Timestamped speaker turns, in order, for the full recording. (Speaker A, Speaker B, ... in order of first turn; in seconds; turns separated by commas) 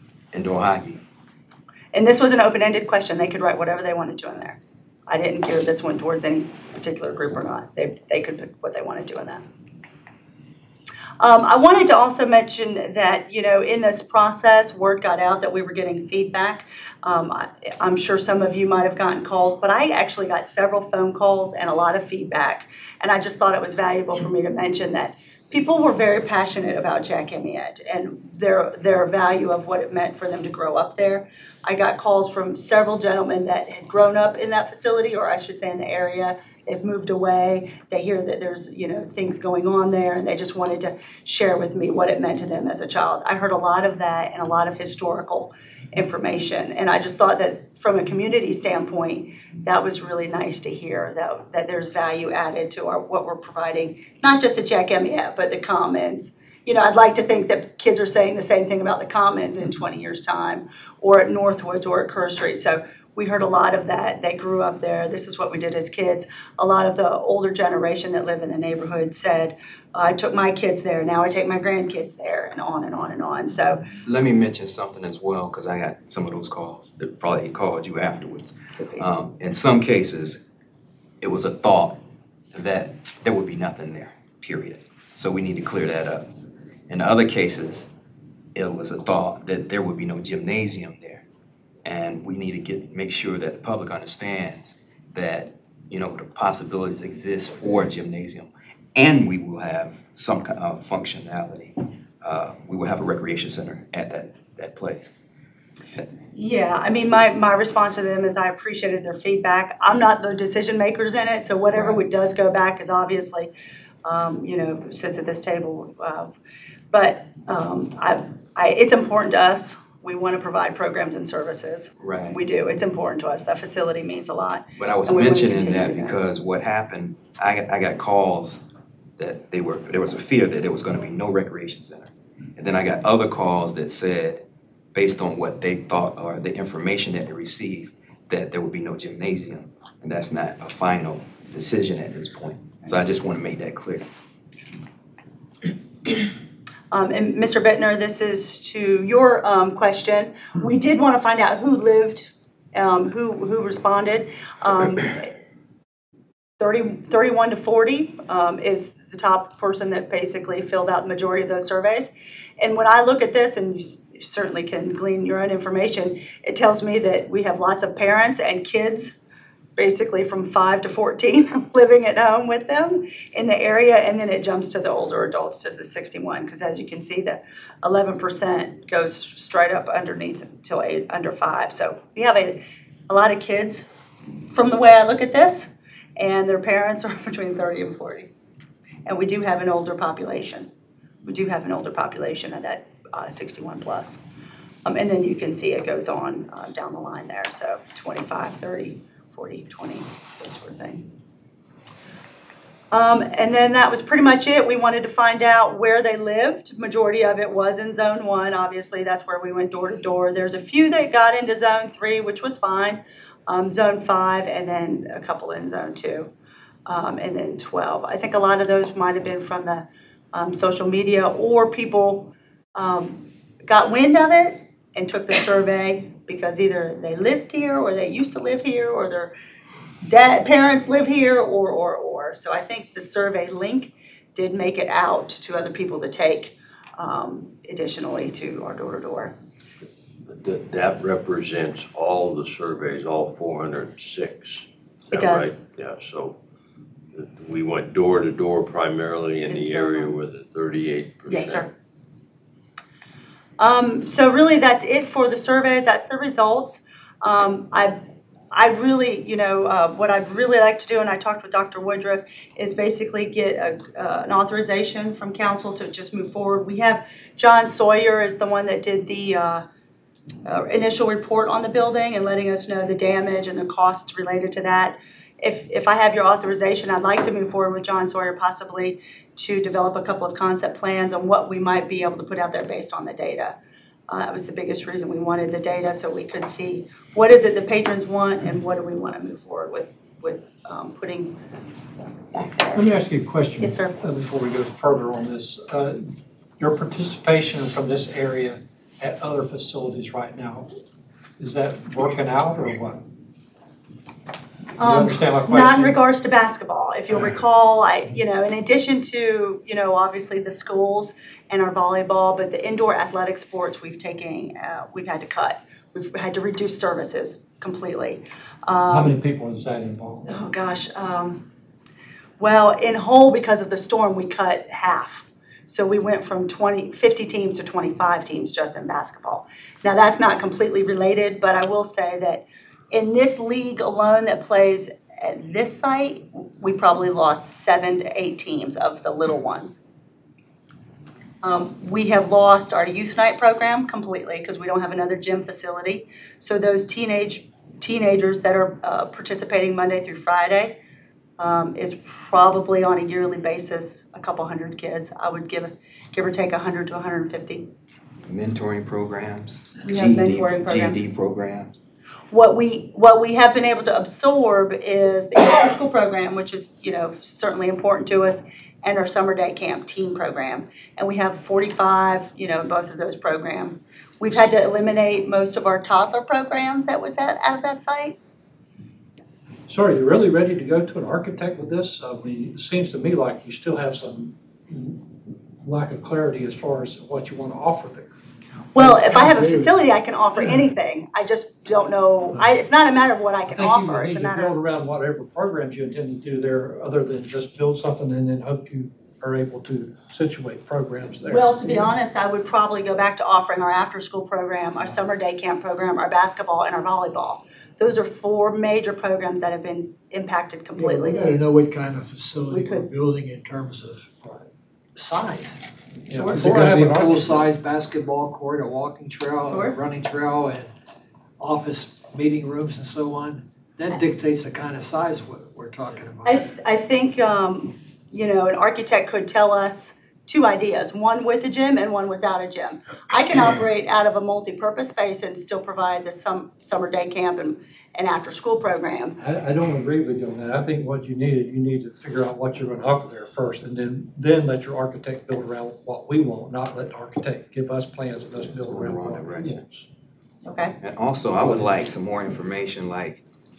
Speaker A: 0.3-1.0, Speaker B: 1.9-9.4, Speaker B: 11.2-73.8, Speaker A: 74.0-80.4, Speaker B: 78.8-79.0, Speaker A: 81.2-82.0, Speaker A: 82.5-86.3, Speaker A: 86.9-87.9, Speaker A: 88.5-91.2, Speaker A: 91.8-105.1, Speaker B: 106.3-113.5, Speaker A: 111.7-112.0, Speaker B: 114.0-116.3, Speaker B: 116.9-126.2, Speaker A: 122.0-122.4, Speaker A: 124.8-128.6, Speaker A: 129.2-144.1, Speaker B: 146.9-155.3, Speaker B: 156.6-169.1, Speaker B: 169.8-183.9, Speaker B: 184.5-188.3, Speaker B: 189.1-190.7, Speaker B: 191.2-194.2, Speaker B: 194.8-201.1, Speaker B: 202.9-216.3, Speaker B: 216.9-229.3, Speaker B: 230.0-239.3, Speaker C: 240.3-246.4, Speaker B: 245.1-245.6, Speaker C: 247.1-251.7, Speaker B: 249.5-250.2, Speaker B: 251.3-251.7, Speaker B: 253.6-258.0, Speaker B: 258.5-269.6, Speaker B: 270.4-283.6, Speaker B: 284.1-291.4, Speaker B: 292.3-292.9, Speaker D: 292.7-300.7, Speaker B: 293.6-293.9, Speaker D: 301.4-303.1, Speaker B: 304.8-319.1, Speaker D: 304.8-306.0, Speaker D: 318.9-320.2, Speaker B: 320.3-321.4, Speaker B: 322.4-339.8, Speaker B: 341.4-350.8, Speaker B: 351.4-357.7, Speaker A: 358.2-361.7, Speaker B: 359.8-361.0, Speaker B: 362.3-378.2, Speaker D: 379.7-388.1, Speaker B: 388.7-394.6, Speaker D: 388.8-389.8, Speaker D: 393.5-401.9, Speaker B: 401.3-411.4, Speaker E: 410.7-414.1, Speaker B: 412.5-412.9, Speaker E: 415.0-420.7, Speaker D: 416.1-417.5, Speaker B: 419.5-419.8, Speaker E: 421.4-426.5, Speaker B: 426.2-439.2, Speaker D: 439.2-449.9, Speaker A: 448.4-449.6, Speaker B: 450.4-450.8, Speaker A: 450.8-453.2